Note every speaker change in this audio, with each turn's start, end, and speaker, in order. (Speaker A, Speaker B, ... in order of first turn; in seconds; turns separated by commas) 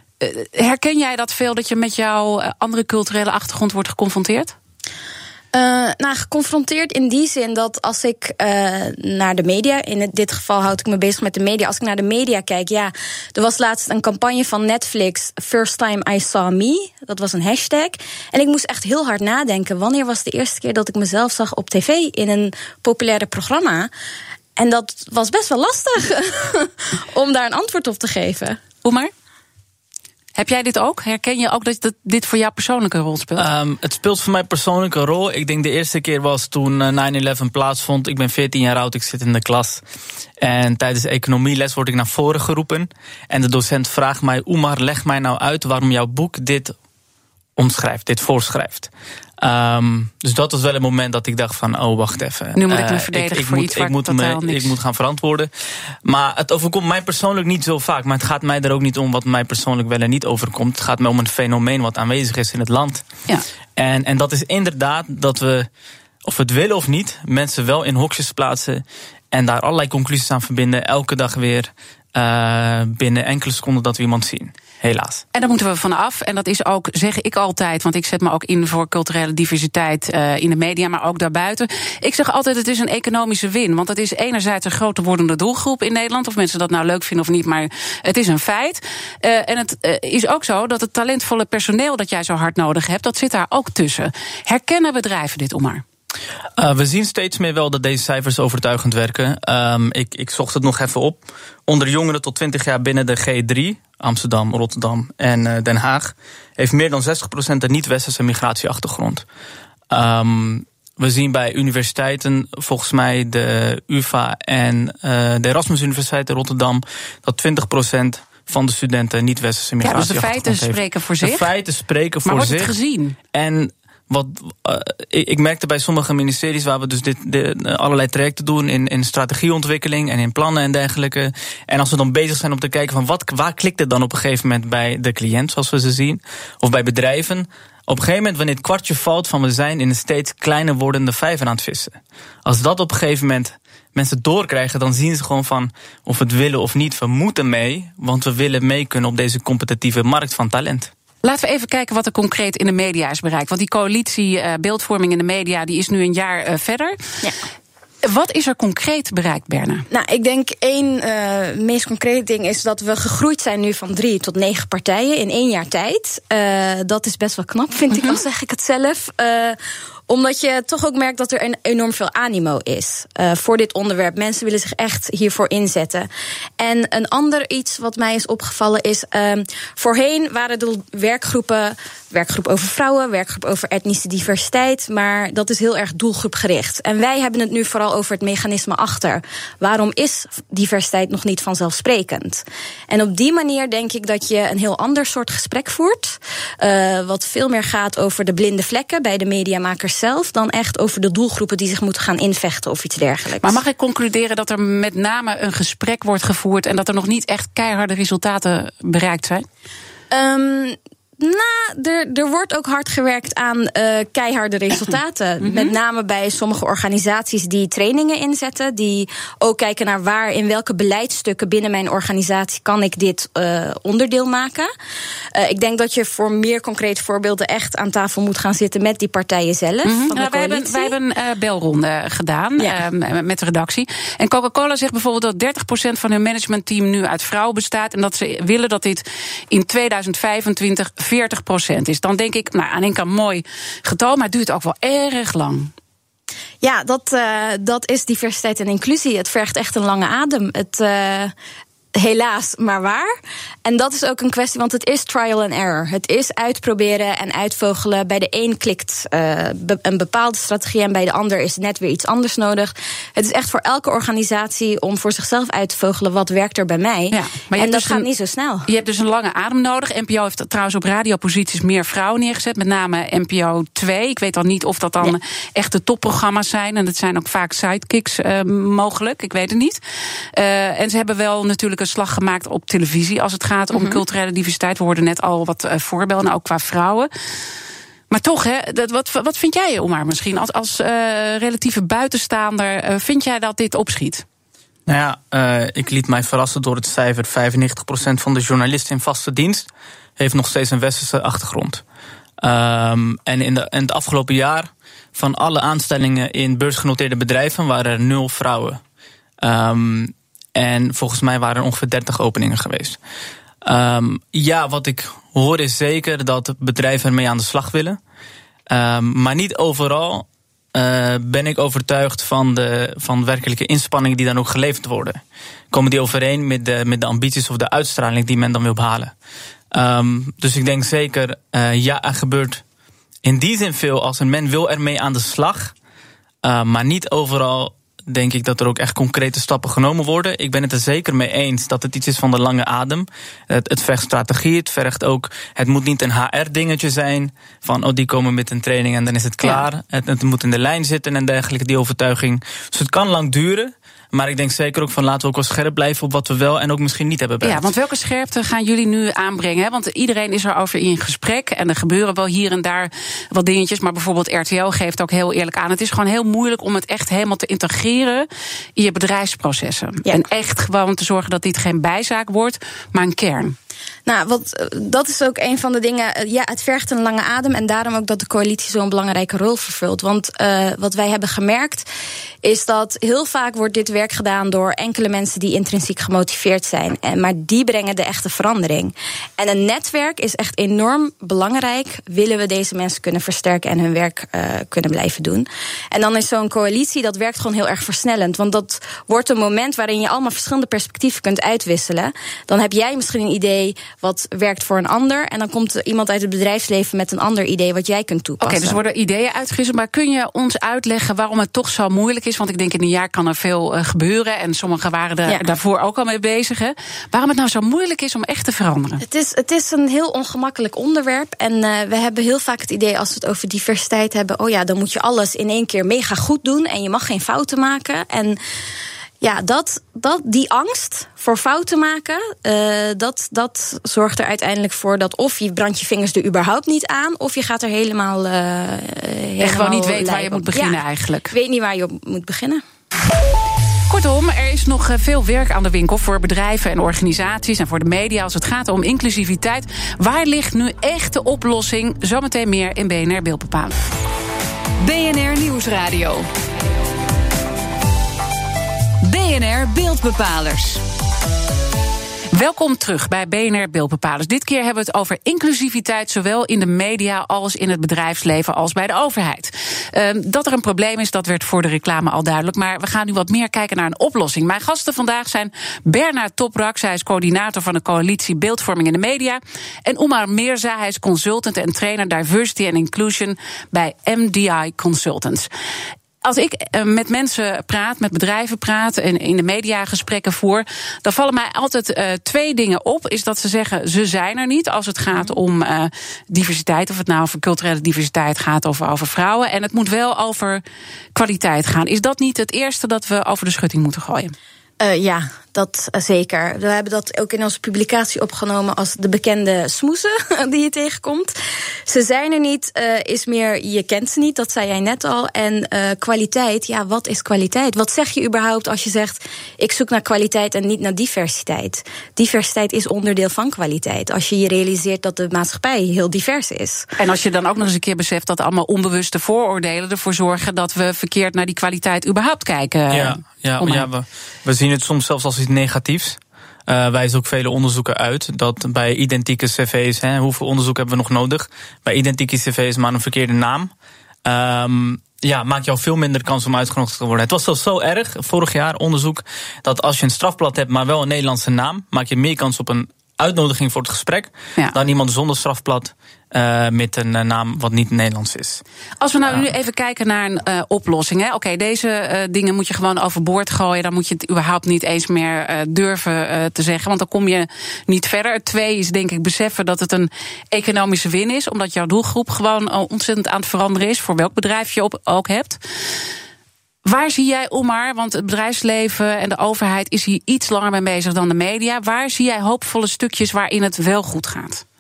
Speaker A: 0.2-4.5, Speaker B: 5.5-23.9, Speaker B: 24.6-28.6, Speaker A: 28.8-29.1, Speaker A: 30.4-33.5, Speaker C: 33.4-39.8, Speaker C: 40.4-46.7, Speaker C: 47.6-55.5, Speaker A: 52.5-54.8, Speaker C: 56.0-63.0, Speaker C: 63.8-65.7, Speaker C: 66.2-75.2, Speaker A: 75.3-95.8, Speaker C: 96.6-109.2, Speaker C: 109.9-122.7, Speaker A: 119.8-121.5, Speaker A: 122.3-123.2, Speaker C: 123.3-150.9, Speaker A: 151.2-157.0, Speaker A: 158.0-159.9, Speaker B: 159.9-169.6, Speaker B: 170.1-203.6, Speaker A: 203.4-209.4, Speaker B: 210.1-224.7, Speaker A: 215.4-215.7, Speaker B: 225.3-231.0, Speaker A: 229.8-245.7, Speaker B: 246.6-251.3, Speaker B: 251.9-253.1, Speaker B: 253.7-268.7, Speaker A: 267.1-268.1, Speaker A: 268.7-279.8, Speaker A: 280.4-287.1, Speaker B: 283.7-284.0, Speaker A: 288.1-294.2, Speaker C: 294.9-301.8, Speaker C: 302.4-308.8, Speaker C: 309.4-313.0, Speaker C: 313.6-318.0, Speaker C: 318.7-329.1, Speaker C: 329.7-332.6, Speaker C: 333.2-335.7, Speaker C: 336.4-357.7, Speaker A: 357.4-373.6, Speaker B: 374.1-381.9, Speaker B: 382.4-408.8, Speaker A: 408.4-419.0, Speaker B: 419.0-428.4, Speaker B: 429.2-442.6, Speaker A: 439.4-441.3, Speaker A: 443.9-453.8, Speaker D: 454.8-456.3, Speaker D: 459.0-460.8, Speaker A: 462.3-485.5, Speaker A: 486.2-500.6, Speaker A: 501.1-504.3, Speaker B: 504.8-511.3, Speaker B: 511.9-526.9, Speaker A: 527.0-533.9, Speaker C: 532.9-543.7, Speaker C: 544.2-558.6, Speaker A: 559.0-575.6, Speaker A: 576.9-584.6